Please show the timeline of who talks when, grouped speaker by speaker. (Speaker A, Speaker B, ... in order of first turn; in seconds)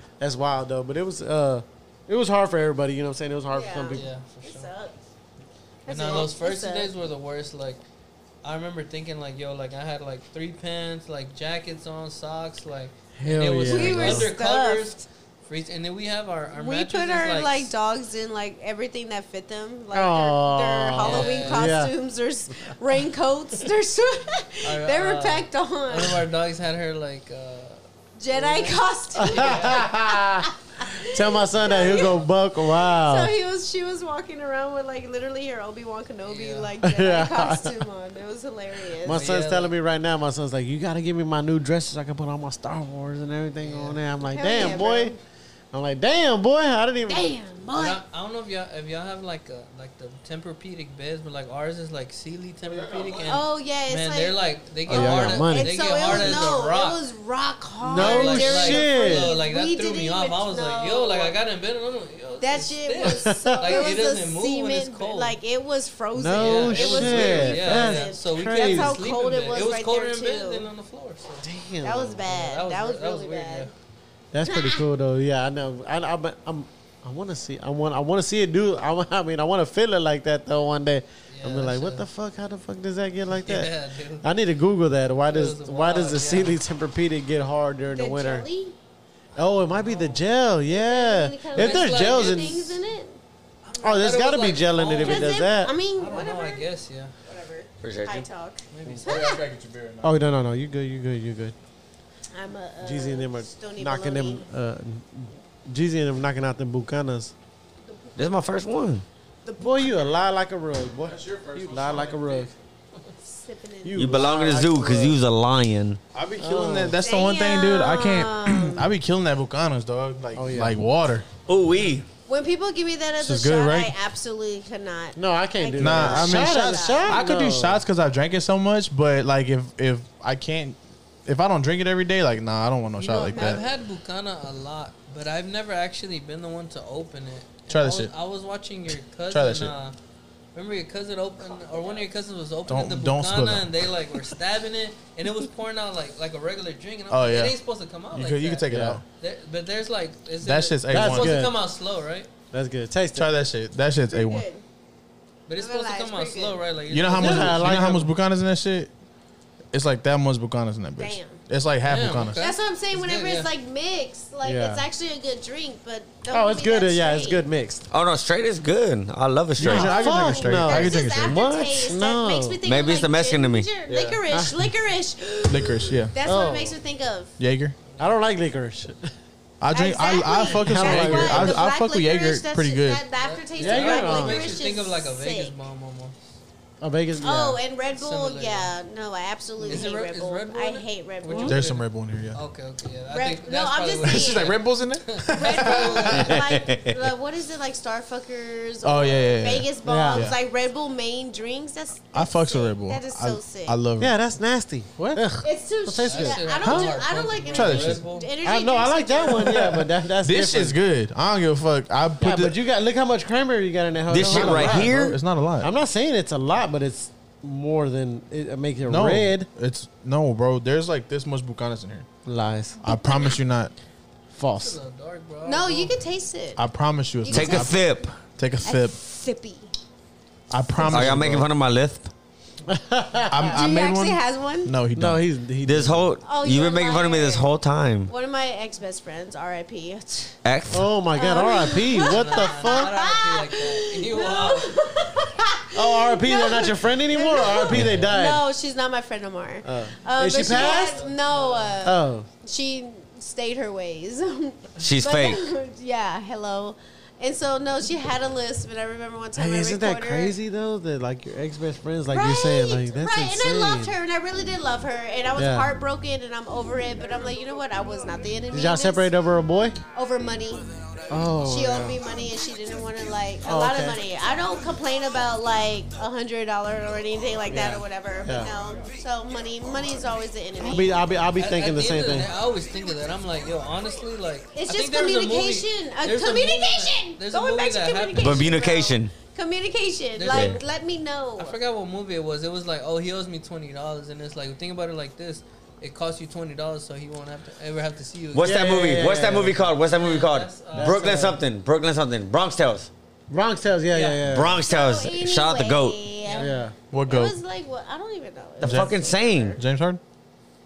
Speaker A: 0.2-4.1, 13.2-14.3, 19.9-21.9, 29.2-30.5, 31.0-33.3, 36.8-37.8, 39.0-45.1, 45.7-47.4, 54.9-56.4, 57.8-59.3, 63.0-64.0, 66.2-69.0, 71.4-72.2, 74.3-88.5, 89.3-92.7, 93.8-95.7, 100.0-101.5, 102.8-107.3, 109.6-112.5, 113.8-115.2, 116.4-117.0, 120.3-120.8, 125.2-127.8, 148.7-149.0, 150.9-151.6, 152.5-153.3, 157.2-158.1, 164.4-164.8, 166.3-167.8, 169.6-172.6, 174.3-174.7, 176.2-176.8, 178.0-179.1, 180.5-181.6, 183.6-184.5, 186.8-187.6, 189.6-189.9, 191.3-191.5, 199.8-200.3, 204.0-206.5, 208.4-210.8, 212.2-219.5, 222.2-222.8, 224.3-224.8, 232.7-233.6, 234.9-236.1, 240.7-242.9, 245.7-248.4, 249.6-251.0, 251.8-252.3, 259.4-263.9, 265.4-265.7, 268.5-269.8, 271.1-272.0, 273.4-274.0, 277.5-278.5, 280.6-282.3, 298.4-299.7, 300.7-301.4, 303.3-304.6, 306.4-306.7
Speaker B: 3.5-4.9, 5.8-6.9, 13.7-15.0, 16.5-26.2, 28.2-32.2, 32.8-39.3, 44.3-45.2, 47.1-48.0, 53.2-54.4, 55.0-61.4, 62.4-70.7, 71.8-73.7, 74.4-74.8, 87.9-88.8, 90.7-93.2, 94.9-96.7, 97.2-99.4, 102.3-104.5, 109.4-110.1, 113.2-114.1, 117.0-118.9, 122.3-127.2, 133.3-133.7, 154.1-154.6, 155.6-156.6, 161.0-161.4, 162.4-167.4, 169.6-177.3, 179.7-185.5, 187.2-191.6, 193.1-194.6, 195.3-203.8, 205.4-209.8, 222.8-223.4, 225.4-226.6, 227.2-227.9, 228.6-229.7, 233.5-234.7, 236.2-237.5, 238.1-240.4, 241.1-260.3, 262.1-269.1, 269.9-270.6, 271.4-281.0, 284.5-291.6, 304.6-306.5, 307.1-309.6
Speaker C: 3.9-4.7, 5.9-7.8, 8.4-17.7, 21.0-21.8, 24.6-27.8, 28.3-29.9, 36.3-36.7, 39.1-39.7, 43.6-44.0, 47.7-57.0, 57.9-65.4, 66.4-71.5, 72.2-73.7, 81.3-82.0, 83.4-84.3, 85.3-86.6, 89.7-90.2, 91.5-92.8, 93.7-97.1, 98.7-99.3, 133.0-139.9, 140.5-148.7, 149.2-152.3, 155.5-157.7, 161.8-163.5, 183.2-186.2, 187.9-188.7, 189.7-196.3, 206.1-208.3, 224.5-225.9, 241.9-244.8, 250.4-251.8, 281.4-288.5, 290.2-290.6, 291.4-298.6, 299.9-301.2, 303.9-304.3, 306.2-306.6
Speaker D: 52.6-53.4, 99.0-100.2, 111.1-112.5, 116.1-121.3, 123.2-123.9, 125.8-133.6, 137.7-138.1, 139.3-139.7, 142.7-143.7, 147.1-147.5, 148.1-149.0, 150.4-151.3, 153.1-154.4, 156.9-158.9, 159.7-162.4, 169.6-171.5, 175.5-176.1, 177.4-177.8, 179.6-183.0, 191.4-192.4, 194.0-196.4, 198.8-200.4, 202.1-204.1, 206.6-208.0, 210.2-212.6, 214.2-215.7, 218.9-222.1, 222.8-223.7, 226.6-228.9, 230.5-231.5, 233.3-235.2, 306.9-307.4, 308.6-310.0
Speaker E: 97.8-98.2, 108.2-109.0, 114.0-116.0, 121.5-122.0, 167.9-169.9, 172.6-174.2, 196.1-197.0, 214.1-215.2, 227.3-228.2, 230.9-232.1, 235.6-238.1, 240.4-240.8, 254.8-255.5, 288.1-289.1, 290.3-290.6, 298.3-302.9, 304.3-306.0, 308.6-309.6